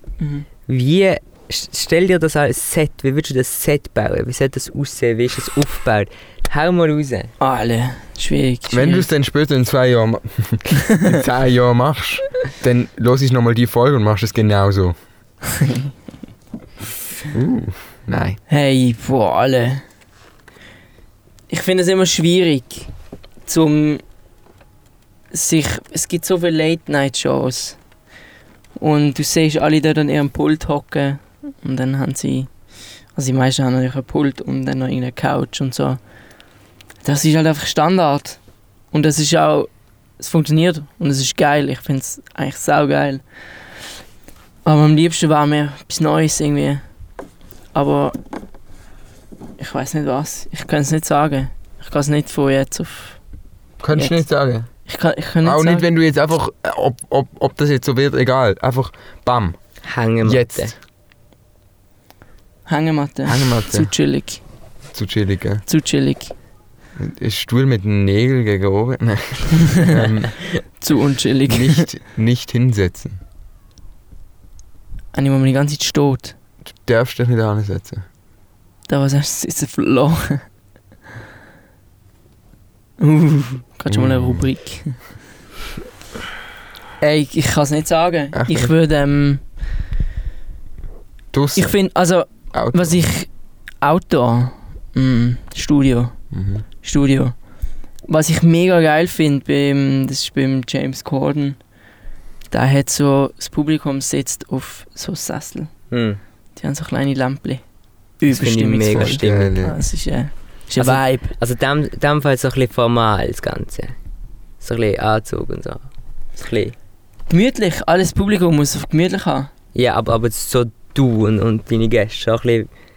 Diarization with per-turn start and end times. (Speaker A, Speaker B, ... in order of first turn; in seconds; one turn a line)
Speaker A: 0.2-0.5
Speaker B: 0.7-7.3
Speaker A: 7.4-9.1
Speaker C: 8.7-14.9
Speaker A: 15.6-15.8
Speaker C: 17.3-18.4
Speaker A: 18.5-19.8
Speaker A: 21.5-22.9
Speaker A: 23.4-24.0
Speaker A: 25.3-27.8
Speaker A: 28.8-32.5
Speaker A: 33.1-36.0
Speaker A: 37.0-38.4
Speaker A: 38.9-43.2
Speaker A: 44.6-46.8
Speaker A: 47.7-48.1
Speaker A: 49.6-53.2
Speaker C: 53.8-54.7
Speaker A: 54.9-55.9
Speaker C: 55.4-59.6
Speaker B: 59.8-60.7
Speaker C: 60.2-60.7
Speaker A: 62.7-64.4
Speaker C: 63.3-63.9
Speaker C: 64.9-65.6
Speaker A: 65.7-66.3
Speaker C: 67.0-70.4
Speaker A: 70.8-71.9
Speaker C: 71.5-73.2
Speaker A: 75.1-76.3
Speaker C: 76.8-78.0
Speaker A: 78.9-80.4
Speaker A: 83.0-85.0
Speaker C: 83.9-84.4
Speaker A: 87.0-89.4
Speaker C: 88.3-88.7
Speaker C: 91.3-91.7
Speaker A: 91.5-93.3
Speaker C: 92.5-93.0
Speaker A: 93.8-96.1
Speaker C: 96.3-96.6
Speaker A: 96.8-97.3
Speaker A: 98.1-101.6
Speaker A: 102.5-105.7
Speaker B: 105.9-106.2
Speaker A: 106.5-107.6
Speaker A: 108.2-111.3
Speaker B: 108.3-109.5
Speaker C: 108.9-109.8
Speaker B: 110.8-114.0
Speaker B: 114.6-116.7
Speaker A: 117.3-119.5
Speaker B: 119.7-122.7